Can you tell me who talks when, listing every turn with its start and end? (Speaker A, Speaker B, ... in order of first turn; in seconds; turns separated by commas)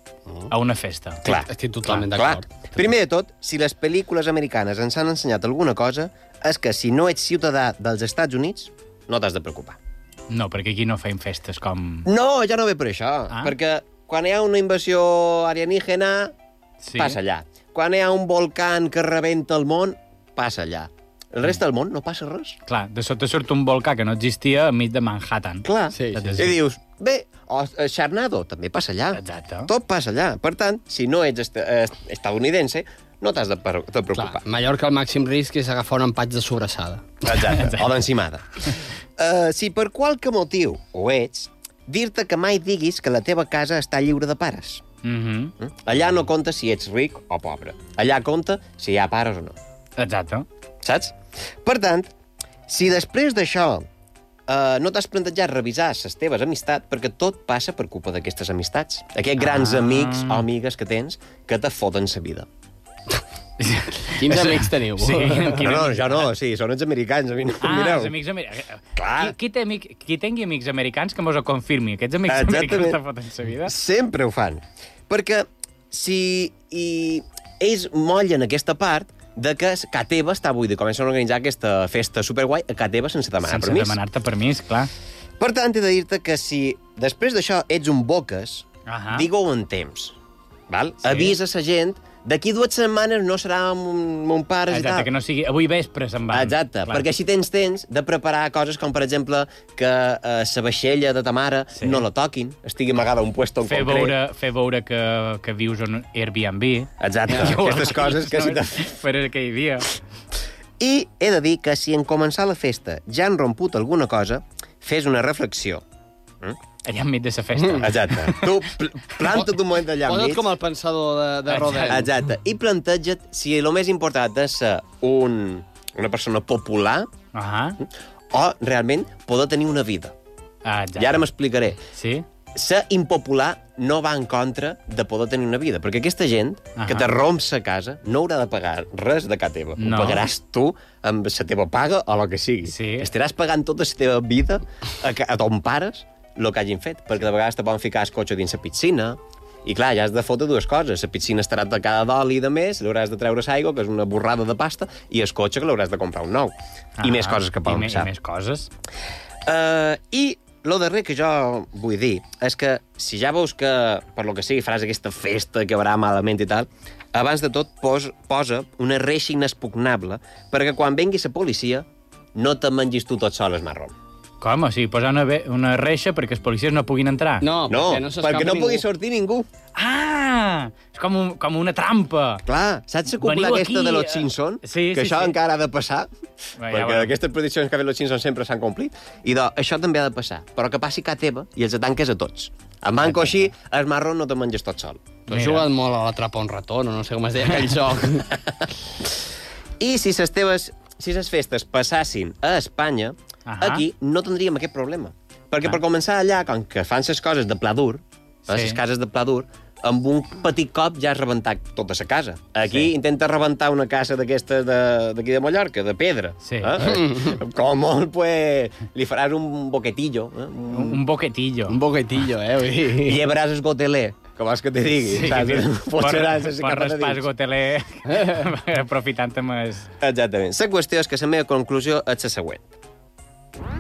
Speaker A: 0.5-1.2, Speaker B: 1.2-1.5, Speaker C: 1.3-2.5, Speaker B: 2.1-9.8, Speaker A: 10.3-12.1, Speaker B: 12.1-16.3, Speaker A: 16.8-17.2, Speaker B: 17.0-22.6, Speaker A: 22.7-26.5, Speaker B: 25.6-34.4, Speaker C: 25.9-26.5, Speaker A: 29.1-29.7, Speaker C: 34.1-37.1, Speaker B: 37.2-44.8, Speaker A: 45.0-45.5, Speaker B: 45.6-49.6, Speaker A: 50.0-50.5, Speaker B: 50.8-52.1, Speaker B: 52.7-53.9, Speaker B: 54.5-62.5, Speaker A: 59.4-60.4, Speaker A: 63.6-66.3, Speaker C: 64.2-65.7, Speaker B: 65.6-68.1, Speaker A: 67.6-73.7, Speaker B: 69.0-69.3, Speaker B: 72.3-73.0, Speaker B: 73.7-84.0, Speaker A: 83.5-84.9, Speaker B: 85.4-90.2, Speaker A: 88.9-89.3, Speaker B: 90.7-95.1, Speaker A: 91.0-91.3, Speaker A: 94.7-97.0, Speaker B: 96.3-104.2, Speaker A: 101.8-102.0, Speaker A: 103.7-110.0, Speaker B: 107.0-108.9, Speaker B: 110.8-115.8, Speaker A: 116.9-118.5, Speaker B: 117.8-120.5, Speaker C: 120.0-122.1, Speaker A: 121.5-122.0, Speaker B: 121.9-127.1, Speaker A: 127.3-127.8, Speaker B: 128.3-130.1, Speaker A: 130.7-131.2, Speaker B: 131.0-131.8, Speaker A: 131.9-132.2, Speaker B: 132.6-158.1, Speaker A: 136.8-137.1, Speaker A: 139.8-140.3, Speaker A: 142.7-143.1, Speaker A: 157.0-158.7, Speaker B: 159.5-173.9, Speaker A: 174.4-177.5, Speaker C: 177.4-178.8, Speaker B: 177.7-179.5, Speaker A: 179.8-182.4, Speaker B: 182.5-186.1, Speaker A: 183.2-185.3, Speaker A: 186.6-187.1, Speaker B: 186.7-195.1, Speaker A: 193.1-193.3, Speaker C: 195.3-198.3, Speaker A: 195.3-195.7, Speaker B: 199.8-221.0, Speaker A: 203.5-203.8, Speaker A: 208.5-208.8, Speaker A: 216.4-216.7, Speaker C: 216.8-217.3, Speaker A: 220.7-221.8, Speaker C: 221.7-223.2, Speaker B: 223.1-227.3, Speaker A: 225.1-229.9, Speaker C: 228.1-228.4, Speaker B: 230.0-232.7